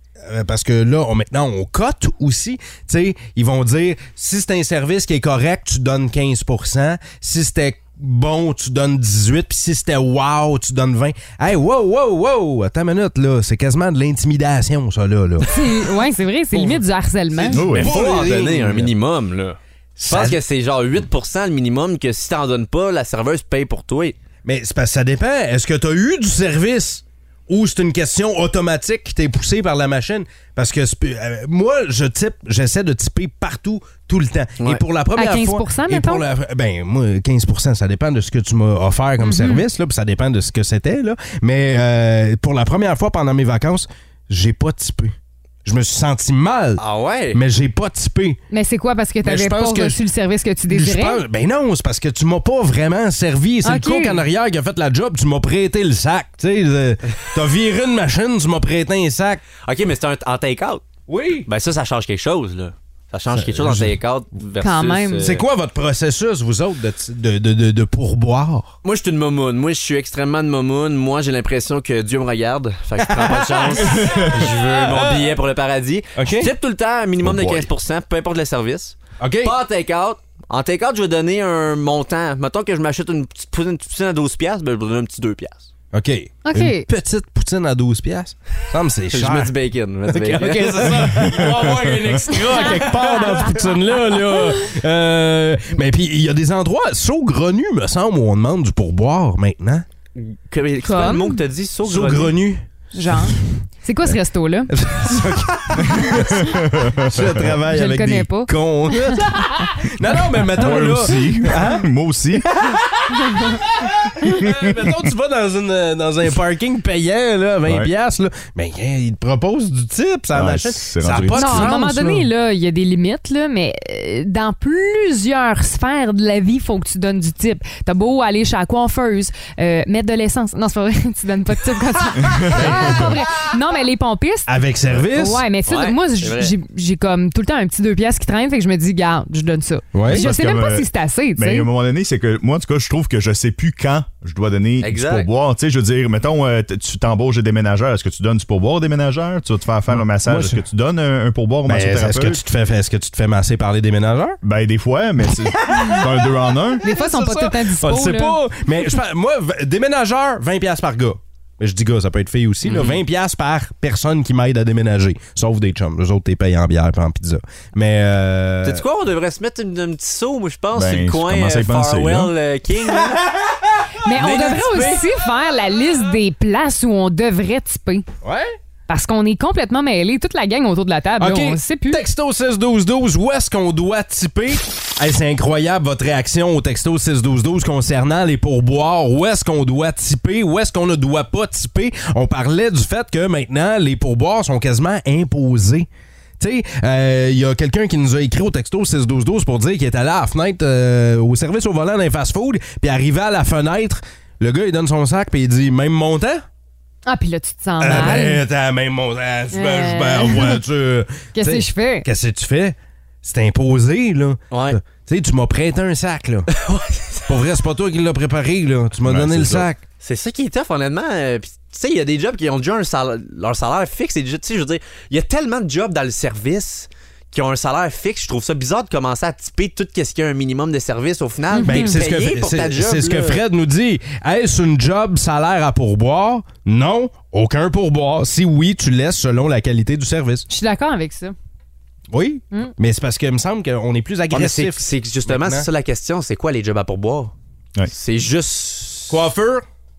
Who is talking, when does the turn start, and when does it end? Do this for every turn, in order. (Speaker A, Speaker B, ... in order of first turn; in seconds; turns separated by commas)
Speaker A: 0.2-15.6, Speaker B: 15.4-17.6, Speaker A: 16.5-16.8, Speaker A: 17.4-18.9, Speaker C: 17.5-17.9, Speaker D: 17.5-24.2, Speaker A: 20.0-20.4, Speaker A: 24.4-48.4, Speaker B: 35.1-36.2, Speaker B: 39.2-39.6, Speaker D: 46.8-47.4, Speaker B: 48.5-51.2, Speaker A: 49.2-50.0, Speaker A: 50.7-59.4, Speaker B: 53.6-54.2, Speaker D: 59.6-60.9, Speaker A: 61.1-61.5, Speaker D: 61.5-65.4, Speaker A: 63.3-63.9, Speaker B: 64.6-65.2, Speaker A: 65.2-68.7, Speaker D: 68.8-85.7, Speaker A: 73.0-75.3, Speaker A: 76.2-76.5, Speaker A: 77.2-77.7, Speaker A: 79.2-79.5, Speaker A: 85.9-89.5, Speaker B: 86.4-86.9, Speaker D: 89.1-93.2, Speaker A: 90.1-99.9, Speaker C: 91.2-91.5, Speaker B: 92.4-93.5, Speaker D: 100.1-102.4, Speaker B: 100.8-101.4, Speaker A: 101.8-103.3, Speaker B: 102.9-105.4, Speaker A: 104.7-122.3, Speaker C: 106.3-107.5, Speaker B: 107.6-109.3, Speaker C: 110.5-112.5, Speaker C: 120.3-121.7, Speaker B: 121.3-141.7, Speaker A: 132.5-133.2, Speaker A: 134.5-135.4, Speaker D: 135.7-136.5, Speaker A: 139.9-140.3, Speaker C: 140.1-152.4, Speaker D: 144.8-145.3, Speaker A: 149.9-150.6, Speaker A: 151.7-154.4, Speaker C: 154.4-156.8, Speaker B: 156.8-158.4, Speaker A: 156.8-168.8, Speaker D: 162.6-163.0, Speaker D: 168.6-173.2, Speaker C: 170.7-172.3, Speaker A: 172.9-173.9, Speaker B: 174.0-178.1, Speaker D: 174.2-175.1, Speaker A: 178.2-178.6, Speaker B: 178.9-182.0, Speaker A: 181.2-195.9, Speaker A: 196.4-206.4, Speaker B: 207.1-208.4, Speaker A: 207.8-216.5, Speaker B: 209.5-210.6, Speaker B: 211.3-212.1, Speaker D: 214.5-214.8, Speaker D: 216.5-217.4, Speaker A: 217.3-219.8, Speaker C: 219.1-219.6, Speaker D: 220.0-233.4, Speaker B: 231.5-232.0, Speaker A: 231.6-240.5, Speaker B: 240.5-241.3, Speaker A: 242.1-245.7, Speaker D: 244.3-247.3, Speaker D: 247.9-249.2, Speaker A: 249.1-249.6